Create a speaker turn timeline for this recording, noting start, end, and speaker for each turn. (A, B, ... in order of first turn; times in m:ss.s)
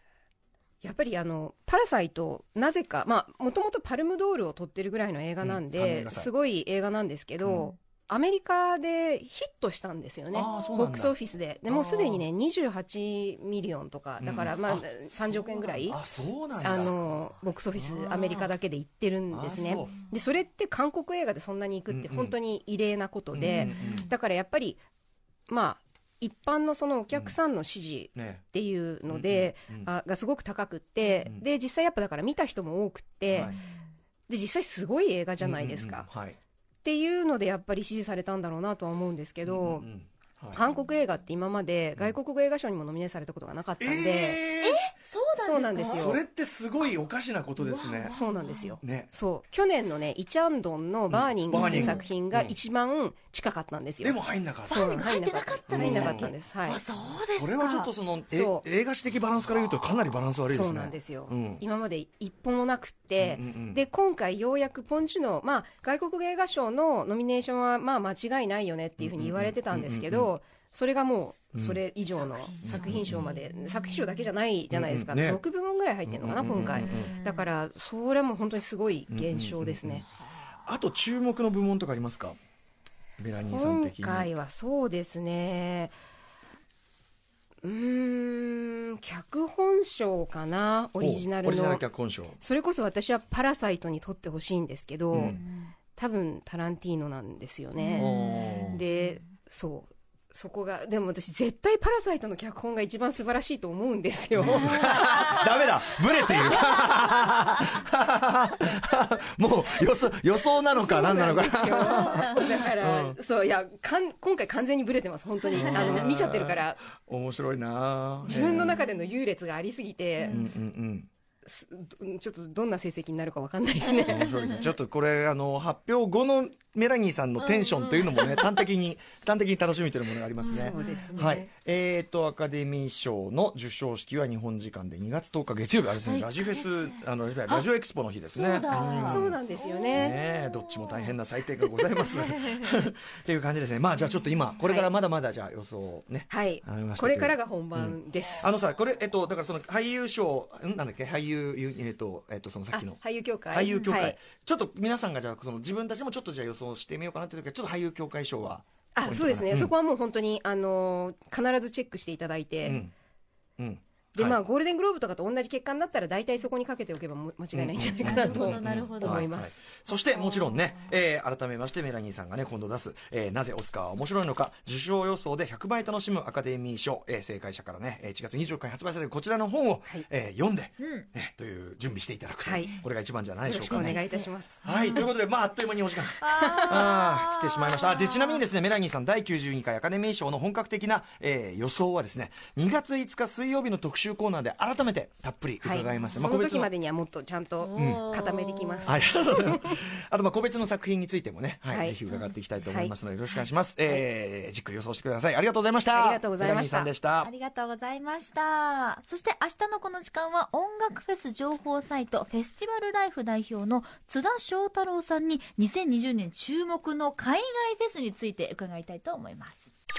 0:00.8-0:16.0 A
0:05.4-0:06.3 B
0:07.4-0:07.7 B
0:10.3-0:11.1 B
0:11.7-0:12.2 B
0:14.2-0:17.0 B
0:16.6-0:24.8 A
0:17.8-0:18.3 B
0:19.3-0:20.0 B
0:21.9-0:22.4 B
0:23.3-0:24.1 B
0:25.5-0:33.6 A
0:28.2-0:28.4 B
0:29.1-0:29.9 B
0:33.3-0:33.6 B
0:34.3-0:36.1 A
0:35.4-0:36.4 B
0:36.8-0:39.9 A
0:39.4-0:40.6 B
0:40.5-0:44.4 A
0:43.8-0:44.9 B
0:44.6-0:46.2 C
0:45.4-0:46.2 A
0:45.8-0:48.2 B
0:47.6-0:48.7 C
0:48.0-0:56.8 A
0:48.8-0:49.1 B
0:51.1-0:52.6 B
0:51.5-0:52.0 C
0:54.0-0:55.1 B
0:54.7-0:57.9 C
0:55.7-0:56.3 B
0:57.3-1:01.6 B
0:58.3-0:58.6 A
1:00.5-1:20.0 A
1:03.2-1:03.8 B
1:09.0-1:10.3 B
1:11.5-1:11.8 B
1:12.6-1:14.1 C
1:12.6-1:13.3 B
1:14.7-1:15.4 B
1:16.1-1:17.2 B
1:16.9-1:17.4 C
1:19.1-1:20.0 B
1:20.7-1:22.4 B
1:23.2-1:24.3 B
1:23.4-1:25.9 A
1:27.6-1:31.8 A
1:31.0-1:32.4 B
1:32.4-1:35.4 A
1:35.1-1:35.4 B
1:36.0-1:45.3 A
1:37.8-1:38.4 C
1:38.0-1:38.8 B
1:44.4-1:53.2 B
1:44.4-1:44.9 C
1:50.7-1:56.8 A
1:55.5-1:58.8 B
1:55.6-1:56.0 C
1:58.2-2:00.4 A
2:00.2-2:00.5 C
2:00.3-2:01.1 B
2:01.4-2:04.3 A
2:04.0-2:19.4 B
2:07.4-2:08.5 C
2:10.4-2:11.2 C
2:10.5-2:11.5 A
2:16.0-2:16.7 C
2:18.3-2:21.2 C
2:18.8-2:20.2 A
2:19.9-2:39.7 B
2:21.8-2:22.5 C
2:24.6-2:24.9 A
2:26.3-2:28.5 A
2:32.7-2:34.2 A
2:39.0-2:42.8 A
2:42.6-2:42.9 B
2:43.6-2:44.4 B
2:44.2-2:49.5 A
2:47.5-3:04.0 B
2:48.0-2:49.3 C
3:00.8-3:01.0 C
3:02.4-3:02.8 A
3:03.4-3:05.0 A
3:03.7-3:05.0 C
3:04.6-3:16.7 B
3:06.2-3:08.4 C
3:06.3-3:06.8 A
3:15.6-3:19.7 A
3:17.6-3:19.0 C
3:17.8-3:18.1 B
3:18.9-3:27.3 B
3:21.7-3:22.0 A
3:22.6-3:23.0 A
3:25.9-3:26.9 A
3:27.2-3:39.7 C